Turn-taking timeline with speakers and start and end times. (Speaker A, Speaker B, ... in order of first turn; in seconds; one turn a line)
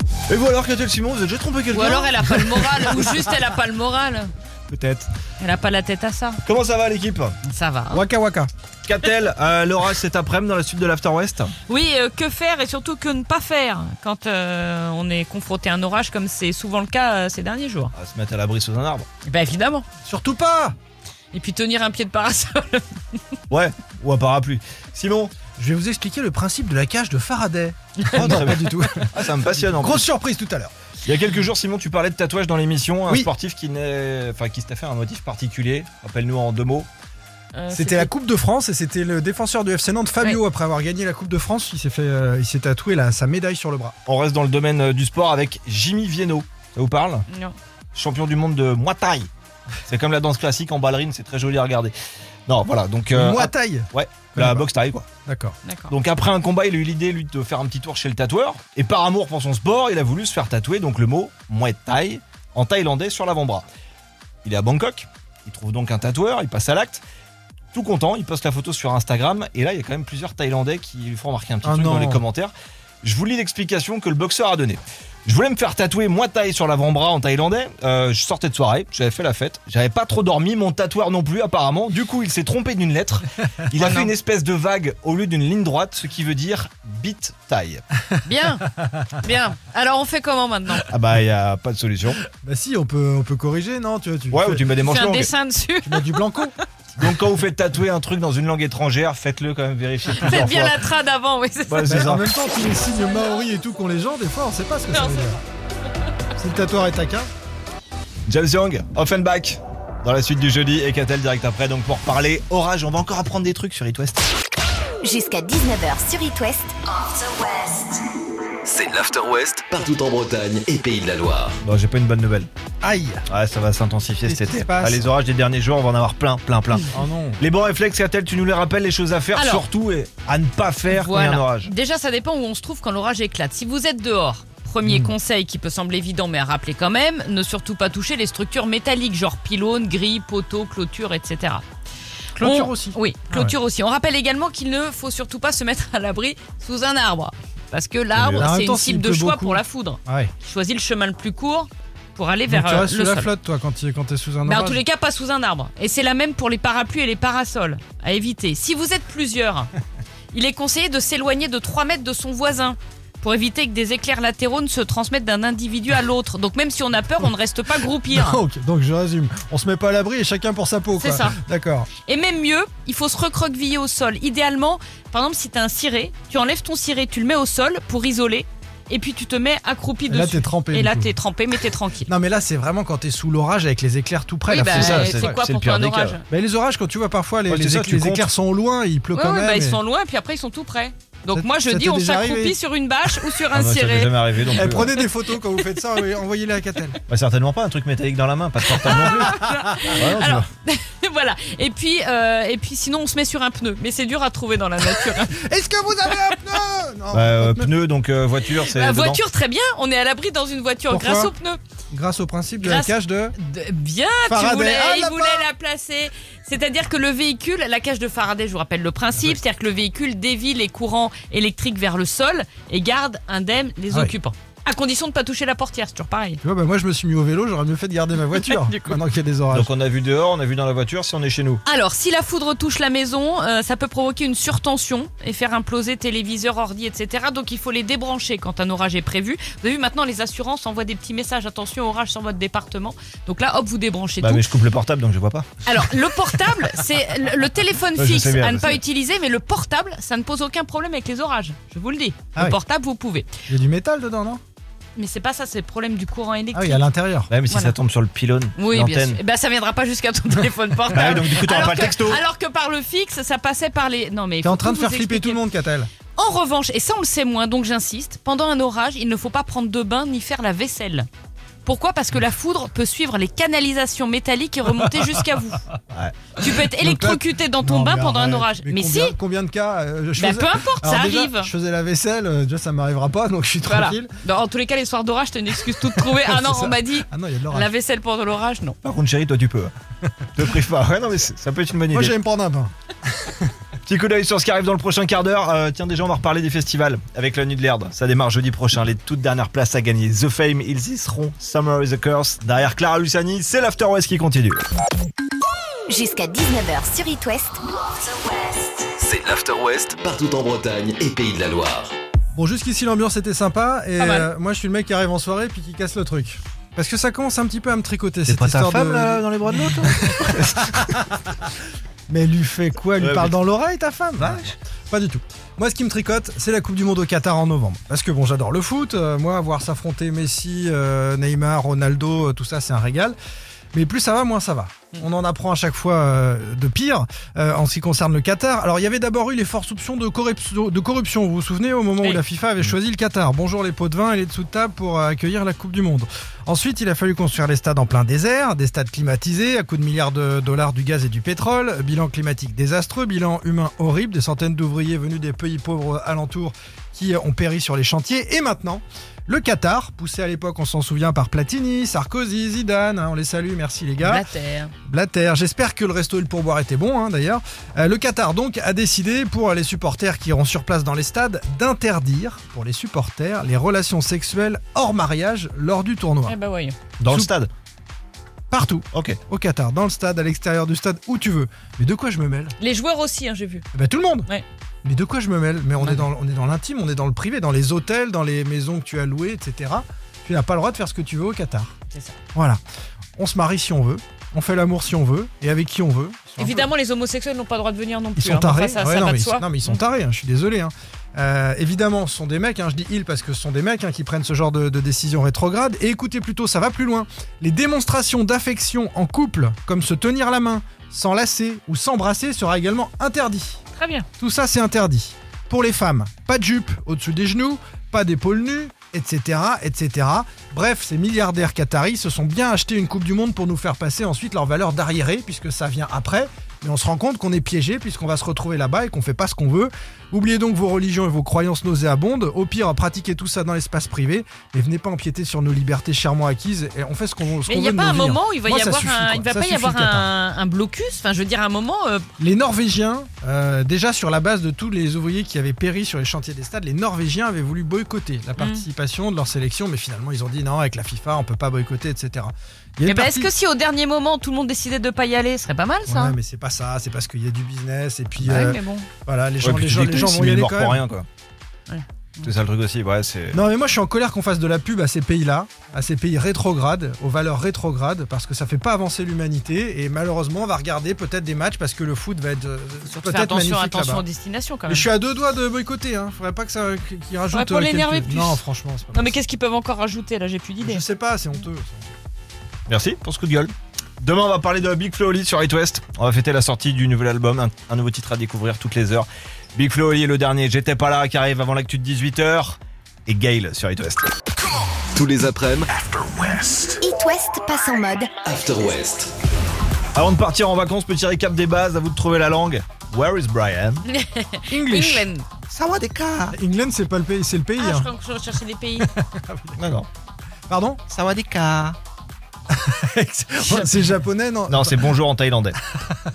Speaker A: 0.3-3.1
Speaker B: 1.7-4.3
Speaker A: 4.7-5.1
Speaker B: 5.4-6.4
Speaker A: 6.5-7.4
Speaker B: 7.4-8.1
Speaker C: 7.9-8.5
Speaker A: 8.8-11.5
Speaker B: 11.7-17.9
Speaker A: 17.9-19.1
Speaker B: 19.3-19.9
Speaker C: 20.1-20.8
Speaker B: 21.3-22.9
Speaker A: 23.5-25.4
Speaker C: 25.6-30.7
Speaker B: 28.0-28.3
Speaker A: 28.1-30.1
Speaker A: 31.1-36.9
Speaker B: 37.5-38.1
Speaker C: 37.7-44.0
Speaker A: 44.1-47.2
Speaker B: 47.3-47.6
Speaker A: 48.0-49.3
Speaker A: 49.9-51.9
Speaker A: 52.5-55.1
Speaker C: 53.1-54.7
Speaker C: 55.3-55.6
Speaker B: 55.6-55.9
Speaker A: 55.9-63.7
Speaker A: 64.5-67.0
Speaker A: 67.7-72.5
Speaker C: 71.6-72.2
Speaker A: 73.0-87.8
Speaker B: 83.8-84.1
Speaker B: 88.2-90.9
Speaker A: 90.9-92.2
Speaker C: 92.3-94.7
Speaker A: 94.3-95.3
Speaker B: 94.8-96.2
Speaker C: 95.8-96.5
Speaker A: 97.0-100.8
Speaker B: 100.1-102.1
Speaker A: 101.7-102.3
Speaker C: 101.9-105.4
Speaker B: 104.9-105.4
Speaker C: 106.4-107.3
Speaker A: 108.3-114.3
Speaker D: 115.0-116.7
Speaker E: 117.2-118.0
Speaker E: 118.7-121.6
Speaker A: 121.6-122.5
Speaker C: 122.8-123.3
Speaker A: 123.3-131.7
Speaker C: 124.2-125.0
Speaker C: 126.9-127.4
Speaker B: 129.3-129.7
Speaker B: 130.9-141.6
Speaker C: 134.8-135.1
Speaker C: 142.4-143.6
Speaker B: 142.4-153.3
Speaker A: 148.2-148.5
Speaker C: 148.4-150.3
Speaker C: 152.5-154.8
Speaker B: 154.4-159.7
Speaker B: 160.3-168.4
Speaker C: 168.1-171.9
Speaker B: 171.0-171.4
Speaker B: 172.0-182.1
Speaker C: 180.1-181.2
Speaker C: 182.1-185.4
Speaker B: 184.5-186.2
Speaker A: 184.7-186.2
Speaker C: 186.3-189.8
Speaker A: 187.5-188.3
Speaker B: 189.1-195.0
Speaker C: 191.3-192.6
Speaker A: 193.5-195.0
Speaker C: 194.6-197.0
Speaker A: 197.1-199.3
Speaker B: 198.7-205.3
Speaker C: 198.8-200.4
Speaker A: 199.9-200.4
Speaker C: 205.0-207.7
Speaker A: 207.1-209.2
Speaker B: 208.5-211.6
Speaker C: 210.9-211.3
Speaker C: 211.9-213.4
Speaker B: 212.6-226.4
Speaker C: 214.3-215.5
Speaker C: 226.4-229.7
Speaker B: 228.3-228.9
Speaker A: 229.5-231.6
Speaker B: 231.7-244.5
Speaker A: 244.2-245.5
Speaker B: 245.7-253.3
Speaker A: 248.0-248.8
Speaker C: 253.5-254.4
Speaker B: 255.0-256.8
Speaker C: 256.5-257.3
Speaker A: 257.3-259.2
Speaker B: 257.5-257.8
Speaker B: 258.6-265.4
Speaker A: 260.9-262.2
Speaker C: 261.0-261.2
Speaker C: 264.4-265.9
Speaker B: 266.1-271.1
Speaker B: 271.6-275.6
Speaker B: 276.4-279.2
Speaker C: 276.5-284.1
Speaker B: 280.2-281.5
Speaker B: 283.6-288.8
Speaker C: 285.6-287.7
Speaker A: 288.8-289.7
Speaker A: 290.4-292.1
Speaker C: 291.9-293.5
Speaker A: 293.9-304.6
Speaker D: 305.9-307.6
Speaker E: 308.5-311.9
Speaker C: 312.4-321.2
Speaker B: 314.0-314.3
Speaker A: 318.3-320.9
Speaker C: 322.1-333.2
Speaker A: 323.0-323.3
Speaker A: 324.2-324.5
Speaker C: 333.7-364.3
Speaker B: 364.0-364.7
Speaker C: 364.9-376.4
Speaker B: 376.3-376.8
Speaker A: 377.0-377.5
Speaker C: 377.1-377.3
Speaker C: 378.5-382.5
Speaker A: 378.9-379.2
Speaker B: 382.6-383.6
Speaker C: 383.7-384.3
Speaker C: 384.9-391.7
Speaker B: 385.8-386.1
Speaker B: 391.9-392.1
Speaker C: 392.4-392.6
Speaker C: 393.2-396.7
Speaker B: 396.4-399.8
Speaker C: 398.2-413.6
Speaker B: 413.8-414.1
Speaker C: 414.2-440.1
Speaker B: 437.5-442.1
Speaker C: 442.2-453.3
Speaker B: 448.4-448.7
Speaker B: 452.8-456.2
Speaker C: 455.9-460.9
Speaker B: 458.2-458.9
Speaker A: 459.4-461.1
Speaker B: 461.7-462.3
Speaker A: 462.2-463.4
Speaker C: 463.3-474.1
Speaker B: 472.9-474.9
Speaker C: 474.7-479.2
Speaker B: 477.3-478.4
Speaker B: 478.9-480.8
Speaker C: 480.6-481.9
Speaker A: 482.7-494.1
Speaker E: 494.9-496.8
Speaker D: 496.8-498.1
Speaker E: 498.2-499.1
Speaker A: 499.9-503.8
Speaker B: 503.9-505.3
Speaker C: 504.5-505.1
Speaker A: 505.5-506.4
Speaker C: 506.3-507.9
Speaker B: 507.6-508.9
Speaker C: 508.8-509.7
Speaker A: 509.6-509.9
Speaker C: 510.5-510.8
Speaker A: 510.9-511.8
Speaker C: 512.5-514.9
Speaker A: 514.5-515.6